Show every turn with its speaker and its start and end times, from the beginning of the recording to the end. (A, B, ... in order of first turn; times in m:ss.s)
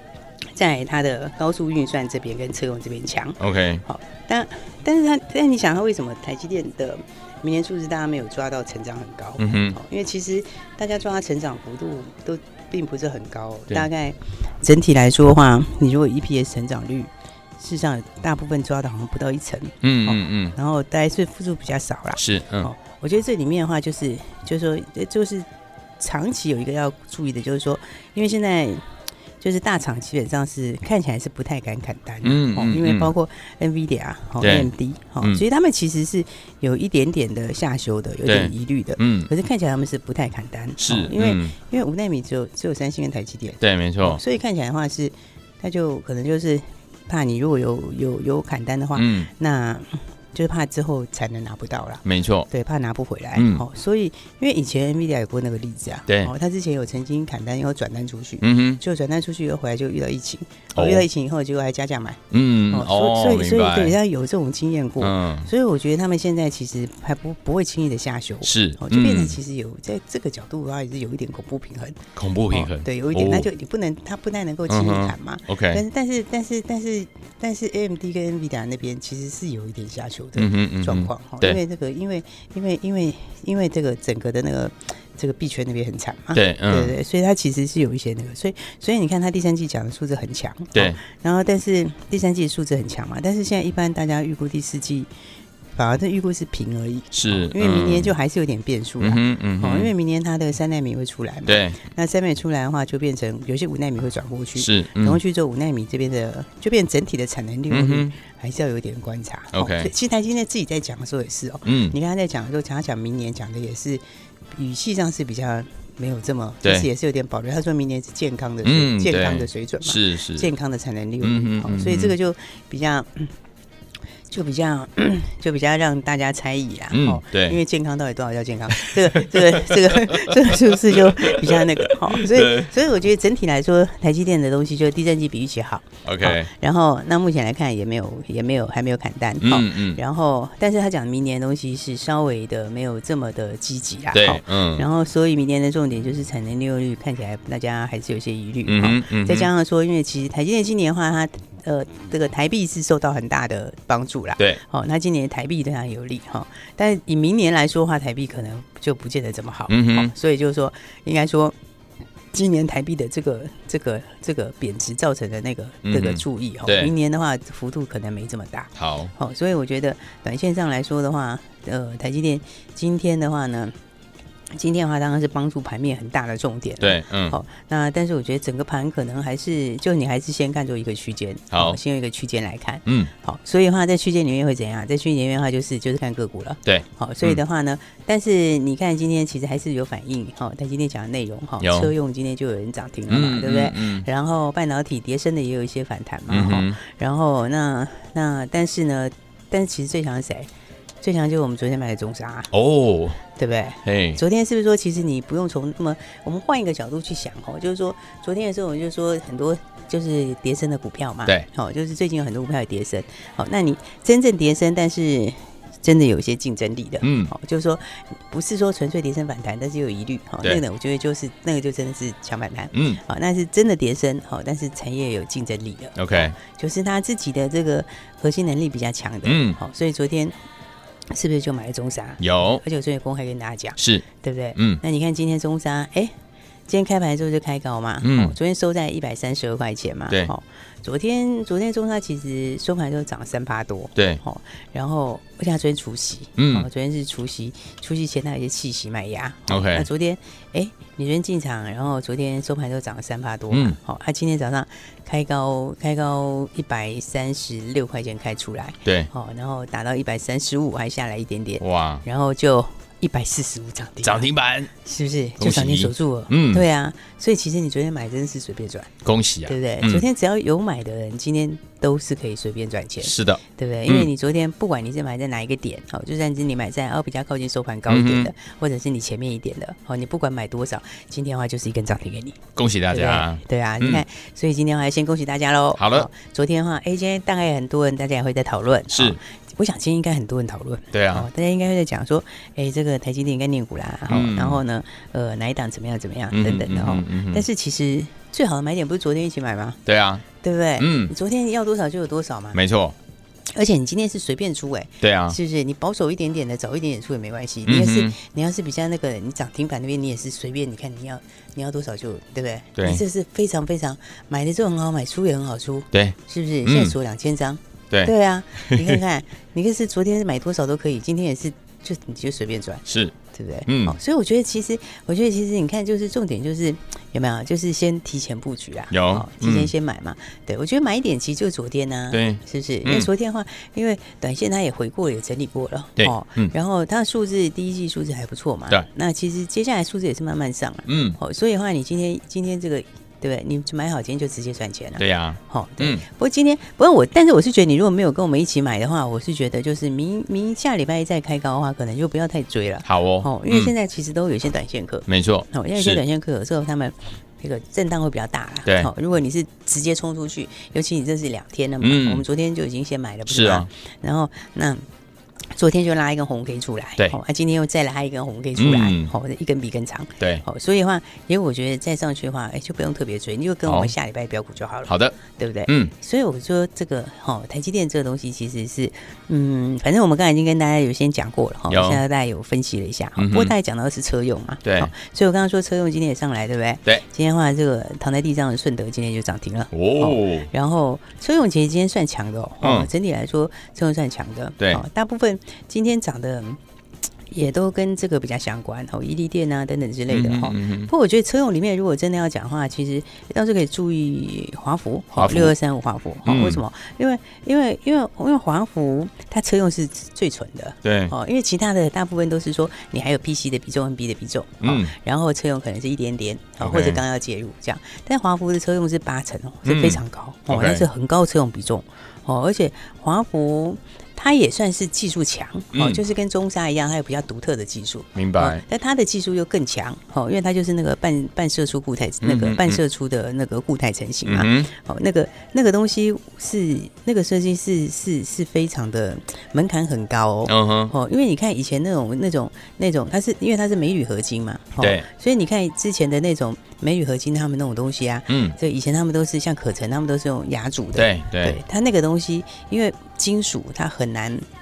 0:00.6-0:25.5 A
0:03.4-0:03.8 B
0:09.4-0:09.8 B
0:19.8-0:20.6 B
0:22.2-0:22.7 B
0:26.0-0:28.8 A
0:29.4-1:02.2 A
0:32.2-0:33.1 B
0:34.4-0:34.7 B
0:38.2-0:39.3 B
0:40.8-0:41.6 B
0:43.6-0:44.2 B
0:49.0-0:49.3 B
0:52.0-0:52.5 B
0:53.4-0:53.6 B
0:58.4-0:58.8 B
1:00.8-1:01.1 B
1:02.3-1:04.0 B
1:02.7-1:35.1 A
1:05.0-1:05.5 B
1:08.4-1:09.4 B
1:12.2-1:13.5 B
1:14.7-1:15.8 B
1:20.4-1:21.6 B
1:26.3-1:26.9 B
1:30.7-1:31.0 B
1:35.8-1:54.0 A
1:37.1-1:38.1 B
1:39.0-1:39.9 B
1:41.5-1:41.8 B
1:44.6-1:45.2 B
1:47.7-1:48.1 B
1:49.5-1:49.9 B
1:51.7-1:52.0 B
1:54.6-2:03.3 A
1:58.6-2:00.5 B
2:01.2-2:02.2 B
2:04.3-2:41.6 A
2:06.9-2:07.6 B
2:09.0-2:12.7 B
2:16.0-2:16.5 B
2:19.4-2:20.0 B
2:24.1-2:24.8 B
2:28.7-2:29.5 B
2:39.7-2:40.1 B
2:42.3-2:53.7 A
2:45.8-2:46.9 B
2:48.8-2:49.1 B
2:54.5-3:20.5 A
2:56.8-2:57.4 B
3:01.5-3:01.8 B
3:02.9-3:03.1 B
3:06.6-3:07.4 B
3:11.6-3:11.9 B
3:13.1-3:14.1 B
3:16.3-3:16.8 B
3:21.0-3:22.5 A
3:22.5-3:23.2 B
3:23.4-3:50.4 A
3:23.8-3:24.2 B
3:37.0-3:37.3 B
3:42.7-3:43.0 B
3:46.0-3:46.4 B
3:49.2-3:49.6 B
3:51.1-3:56.1 A
3:52.2-3:52.6 B
3:53.8-3:54.0 B
3:54.6-3:54.8 B
3:56.7-4:28.9 A
3:58.0-3:58.4 B
4:04.0-4:04.2 B
4:06.4-4:06.7 B
4:09.5-4:09.9 B
4:13.5-4:13.8 B
4:18.8-4:19.1 B
4:21.6-4:22.0 B
4:24.0-4:24.7 B
4:25.4-4:26.6 B
4:29.0-4:30.0 B
4:29.5-4:59.8 A
4:33.0-4:34.1 B
4:37.9-4:38.3 B
4:42.6-4:44.0 B
4:45.8-4:46.1 B
4:48.9-4:49.2 B
4:50.9-4:51.3 B
4:54.1-4:54.6 B
4:56.3-4:57.4 B
4:59.9-5:00.2 B
5:00.4-5:02.6 A
5:00.8-5:01.1 B
5:02.5-5:03.0 B
5:03.5-6:04.8 A
5:05.0-5:05.4 B
5:07.6-5:08.2 B
5:12.8-5:13.0 B
5:15.9-5:17.0 B
5:17.9-5:19.0 B
5:22.9-5:23.2 B
5:23.7-5:24.0 B
5:28.9-5:29.7 B
5:32.1-5:33.1 B
5:36.0-5:36.6 B
5:40.9-5:41.2 B
5:45.0-5:46.0 B
5:52.8-5:53.7 B
5:55.1-5:56.0 B
6:01.8-6:02.2 B
6:03.3-6:03.7 B
6:05.6-6:36.6 A
6:08.6-6:09.1 B
6:13.7-6:13.9 B
6:14.9-6:15.9 B
6:21.7-6:22.0 B
6:23.2-6:23.5 B
6:24.6-6:24.9 B
6:29.7-6:30.5 B
6:32.6-6:32.9 B
6:34.6-6:34.8 B
6:37.3-7:34.4 A
6:40.1-6:40.9 B
6:45.2-6:45.5 B
6:46.2-6:46.6 B
6:50.8-6:51.1 B
6:54.6-6:54.9 B
6:56.6-6:57.0 B
6:59.6-7:00.8 B
7:05.7-7:06.0 B
7:08.2-7:08.6 B
7:12.2-7:12.8 B
7:14.2-7:14.7 B
7:20.5-7:20.9 B
7:24.8-7:25.1 B
7:28.3-7:28.6 B
7:31.0-7:31.6 B